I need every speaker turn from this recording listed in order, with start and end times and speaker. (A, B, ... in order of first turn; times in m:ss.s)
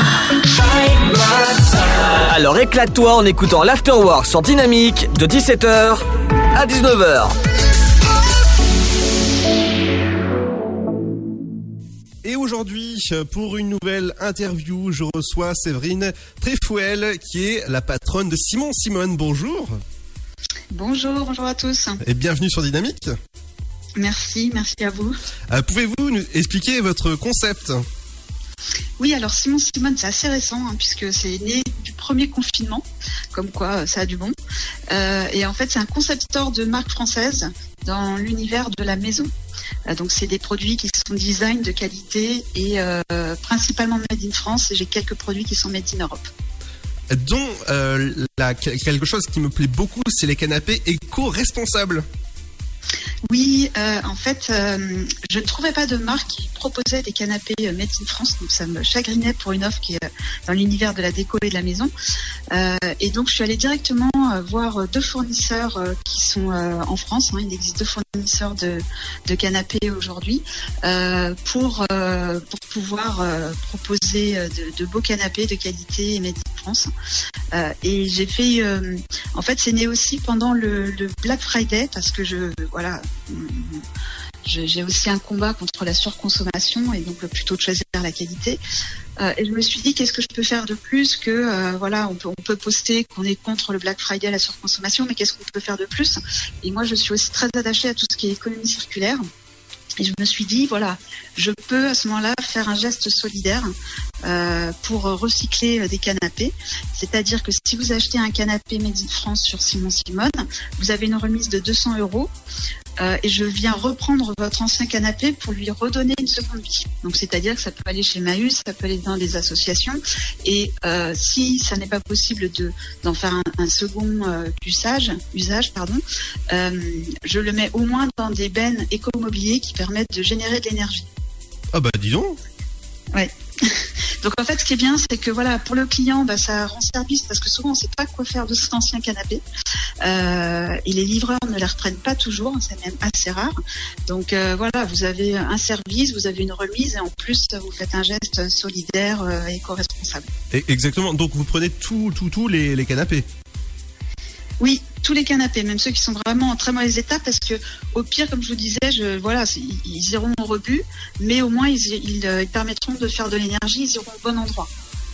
0:00.9-0:07.4 A
0:12.2-0:19.8 B
0:20.7-0:22.0 C
0:22.0-0:23.1 B
0:24.0-0:25.2 C
0:25.5-0:27.8 B
0:29.0-0:34.4 C
0:34.9-0:39.3 C
0:39.9-0:46.3 C
0:47.1-0:52.0 B
0:53.3-1:01.9 C
1:02.5-1:16.9 C
1:17.5-1:23.8 C
1:24.4-1:28.6 C
1:29.2-1:39.2 C
1:40.0-1:52.3 C
1:53.0-2:11.1 C
2:11.7-2:12.4 B
2:13.1-2:19.4 C
2:20.0-2:23.6 C
2:24.1-2:30.3 C
2:30.5-2:33.2 B
2:34.6-2:44.7 C